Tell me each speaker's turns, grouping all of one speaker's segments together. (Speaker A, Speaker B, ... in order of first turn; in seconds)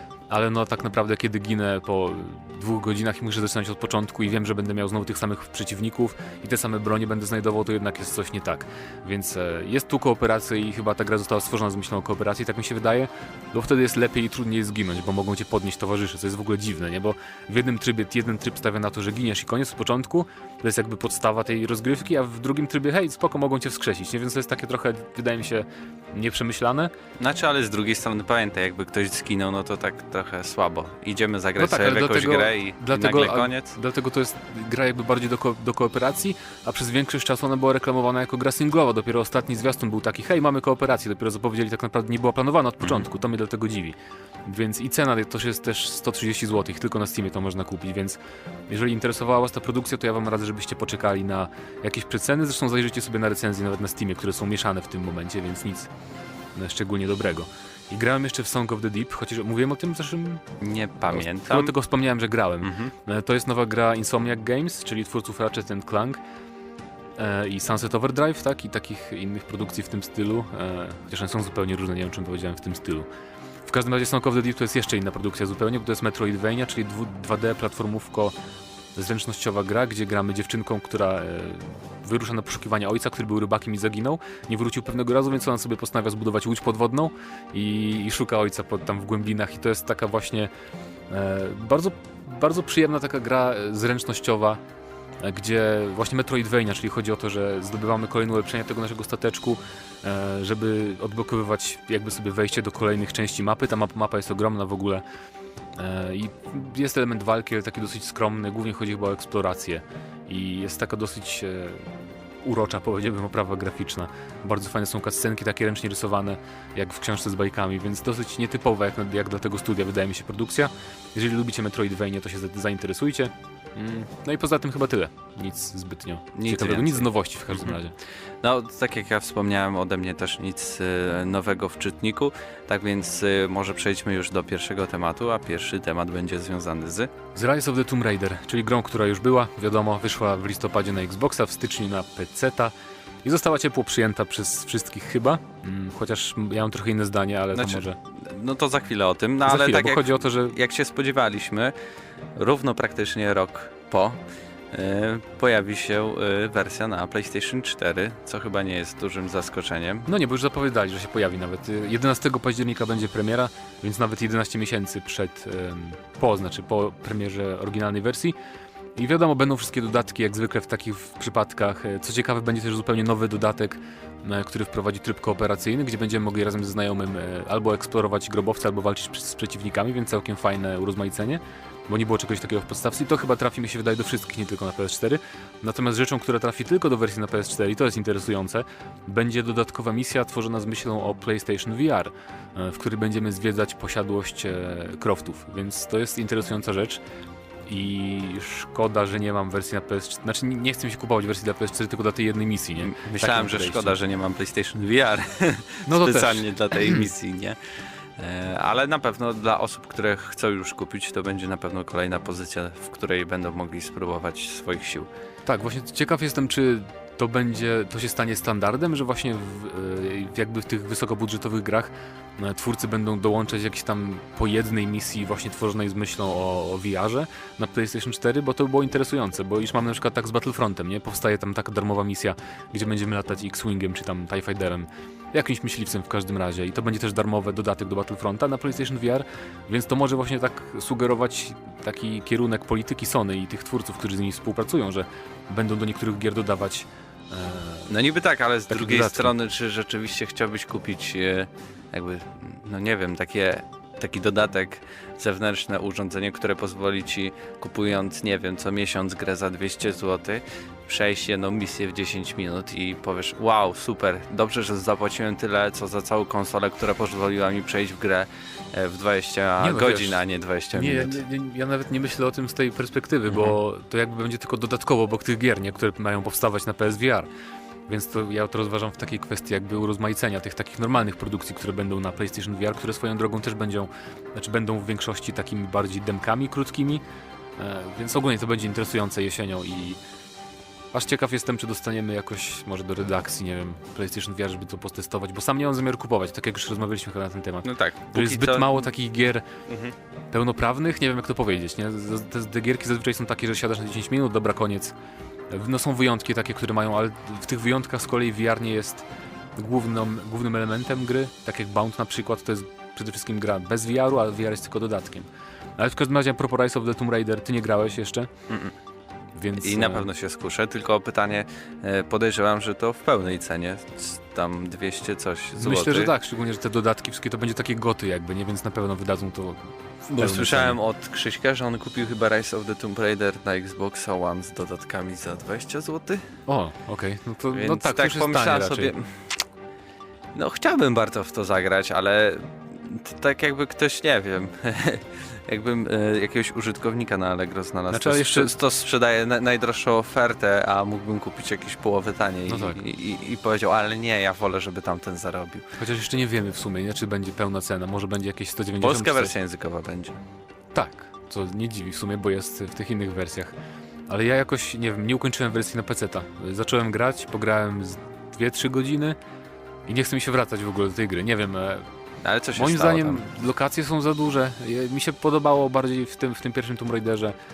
Speaker A: 0.3-26.9, 31.6-55.9, 56.5-60.4, 61.1-66.2, 67.2-73.1, 73.7-78.3, 79.0-90.5, 91.1-94.6, 95.2-105.0, 105.8-128.0, 137.3-142.7, 143.2-148.0, 149.4-150.6, 160.1-168.4, 169.0-197.0, 197.7-204.0, 205.9-207.1, 215.5-247.9, 248.7-249.3, 269.6-270.2, 270.7-277.3, 277.9-287.0, 287.6-290.0, 290.9-299.5, 300.3-304.9, 305.5-309.1, 309.6-318.3, 319.4-320.1, 325.6-330.8, 336.5-338.9, 347.9-348.5, 352.5-352.8, 355.8-359.3, 360.7-363.5, 364.1-369.2, 369.9-371.9, 372.6-377.4
Speaker B: 27.2-33.8, 60.6-61.7, 62.6-62.9, 126.3-127.8, 128.4-137.1, 147.5-151.7, 152.4-154.2, 154.7-160.1, 202.8-207.6, 208.2-215.1, 247.9-271.2, 273.3-273.6, 297.6-298.9, 299.7-299.9, 318.5-318.7, 319.6-326.1, 330.1-336.3, 337.5-339.4, 340.3-355.7, 358.8-360.2, 372.2-373.2